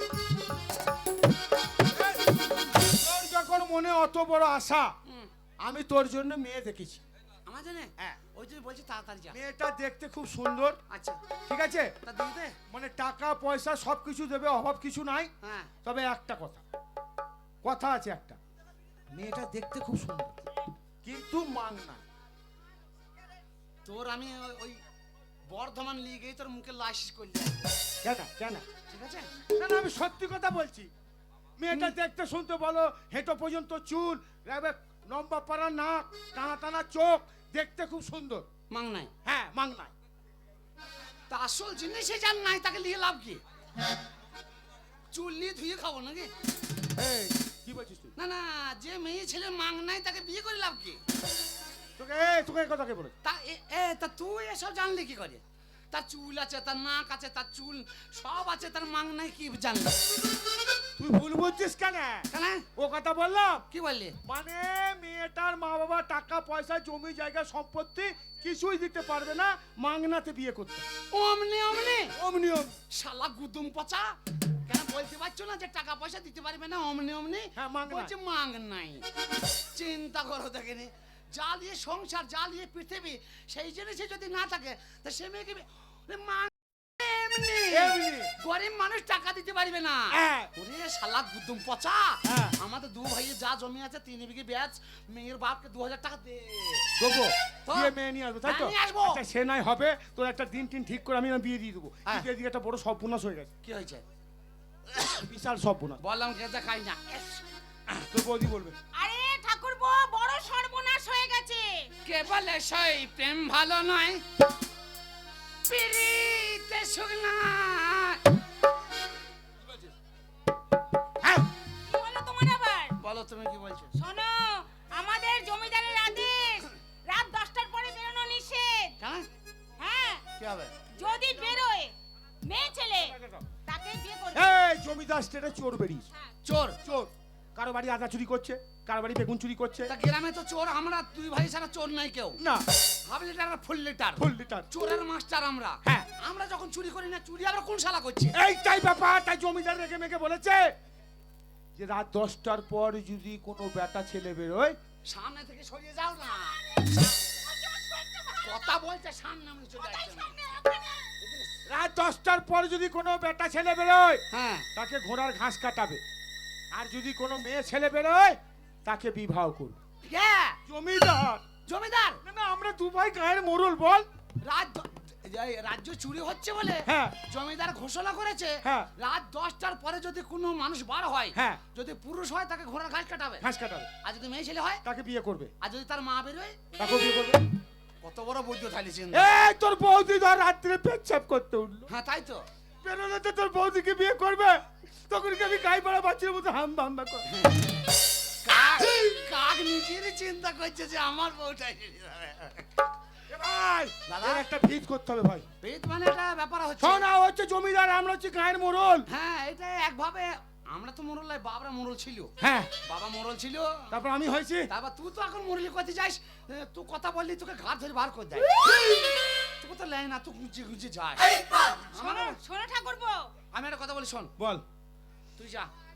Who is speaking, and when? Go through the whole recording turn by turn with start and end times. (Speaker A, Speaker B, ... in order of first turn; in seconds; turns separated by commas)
Speaker A: 1.9-5.0, Speaker B: 5.0-5.3, Speaker A: 5.6-7.0, Speaker B: 7.5-9.4, Speaker A: 9.3-10.8, Speaker B: 10.9-11.2, Speaker A: 11.5-11.9, Speaker B: 12.0-12.6, Speaker A: 12.7-15.3, Speaker B: 15.4-15.7, Speaker A: 15.8-16.6, Speaker A: 17.6-18.4, Speaker A: 19.1-20.4, Speaker A: 21.0-22.0, Speaker B: 23.9-24.8, Speaker B: 25.5-27.7, Speaker A: 28.0-28.7, Speaker B: 28.9-29.3, Speaker A: 29.6-30.9, Speaker A: 31.6-38.5, Speaker B: 38.7-39.1, Speaker A: 39.2-39.9, Speaker B: 41.3-43.4, Speaker B: 45.1-46.3, Speaker A: 47.0-48.1, Speaker B: 48.2-51.0, Speaker A: 52.0-53.1, Speaker B: 53.2-60.0, Speaker A: 61.0-63.7, Speaker B: 62.3-62.7, Speaker B: 63.7-64.2, Speaker A: 64.2-70.9, Speaker B: 71.1-72.1, Speaker A: 72.2-72.8, Speaker B: 72.9-79.0, Speaker A: 77.6-78.1, Speaker B: 79.7-96.9, Speaker A: 87.7-88.3, Speaker A: 90.1-90.5, Speaker A: 92.3-92.5, Speaker A: 97.0-103.5, Speaker B: 97.7-97.9, Speaker B: 98.5-99.2, Speaker B: 103.6-104.0, Speaker A: 105.0-106.0, Speaker B: 106.0-107.4, Speaker A: 107.9-108.8, Speaker C: 109.0-111.9, Speaker B: 112.0-114.2, Speaker B: 115.7-118.2, Speaker A: 121.2-121.5, Speaker C: 121.9-123.0, Speaker B: 123.0-123.9, Speaker C: 124.0-129.0, Speaker B: 129.0-129.3, Speaker C: 129.8-130.3, Speaker B: 130.4-130.8, Speaker C: 130.9-134.5, Speaker A: 132.9-133.5, Speaker A: 134.3-136.1, Speaker B: 136.4-136.8, Speaker A: 136.8-139.9, Speaker B: 139.9-142.4, Speaker A: 142.4-142.7, Speaker B: 143.1-148.3, Speaker A: 144.2-144.7, Speaker A: 148.3-150.8, Speaker A: 151.8-154.8, Speaker B: 155.1-157.1, Speaker C: 156.6-158.7, Speaker B: 158.4-160.4, Speaker C: 159.8-161.1, Speaker B: 161.2-161.6, Speaker A: 161.7-164.2, Speaker B: 164.3-164.7, Speaker A: 164.8-166.0, Speaker A: 166.7-169.8, Speaker B: 170.0-170.6, Speaker A: 170.7-171.4, Speaker B: 171.7-172.2, Speaker A: 172.2-174.1, Speaker B: 174.4-183.4, Speaker A: 176.9-177.2, Speaker A: 178.6-178.9, Speaker A: 181.3-181.6, Speaker A: 183.4-183.9, Speaker B: 184.0-184.8, Speaker A: 184.8-185.5, Speaker B: 185.6-186.6, Speaker A: 186.8-187.4, Speaker B: 188.0-189.3, Speaker A: 189.1-191.9, Speaker B: 191.9-192.5, Speaker A: 192.8-197.3, Speaker B: 197.3-197.8, Speaker B: 198.4-202.8, Speaker A: 203.3-205.5, Speaker B: 204.1-204.5, Speaker B: 205.6-207.1, Speaker A: 206.8-209.1, Speaker B: 209.1-214.0, Speaker A: 212.4-212.7, Speaker A: 213.9-214.7, Speaker B: 214.7-218.7, Speaker B: 219.6-222.4, Speaker C: 221.9-223.3, Speaker B: 223.5-224.3, Speaker A: 224.4-224.6, Speaker B: 225.4-225.7